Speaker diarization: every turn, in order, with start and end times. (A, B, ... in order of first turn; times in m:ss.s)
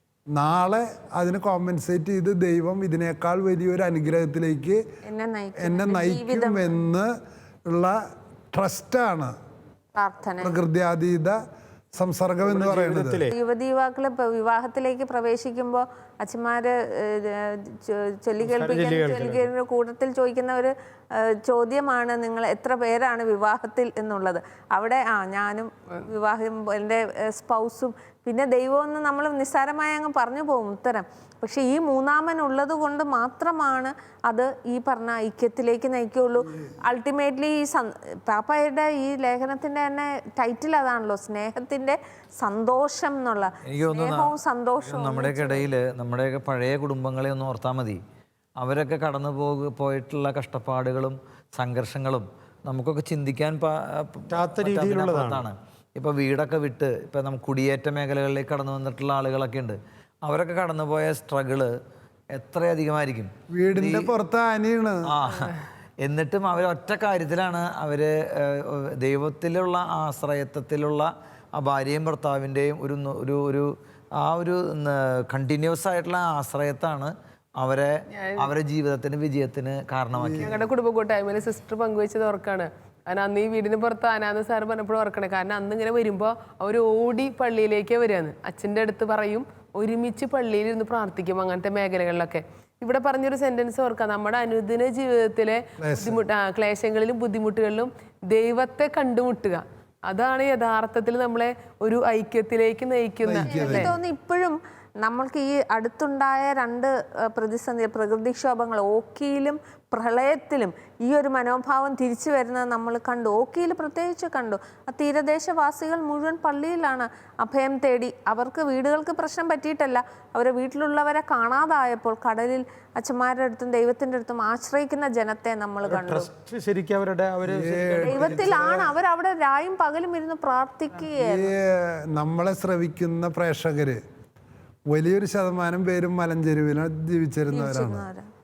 0:00.3-0:04.8 A
0:05.0-0:06.7 B
0:05.6-0:07.1 A
0:07.7-0:08.0 A
0:08.5-0:09.3 A
0:10.0-0:10.5 B
0:10.4-0:11.4 A
0:11.9-0:13.2 A
0:12.4-0:13.3 C
0:13.3-0:45.6 B
0:18.4-0:19.5 C
0:43.7-0:44.3 D
0:44.8-0:48.0 D
0:48.6-1:01.7 D
0:54.3-0:55.5 C
1:02.3-1:04.1 D
1:03.5-1:05.1 A
1:05.0-1:20.6 D
1:18.1-1:18.5 E
1:20.1-1:20.6 A
1:20.4-1:43.9 E
1:35.8-1:36.2 A
1:43.2-1:43.9 A
1:43.4-2:06.3 B
2:05.8-2:08.6 C
2:07.4-2:08.9 A
2:08.0-2:11.5 B
2:11.1-2:14.0 A
2:14.9-2:18.1 A
2:17.5-2:18.3 B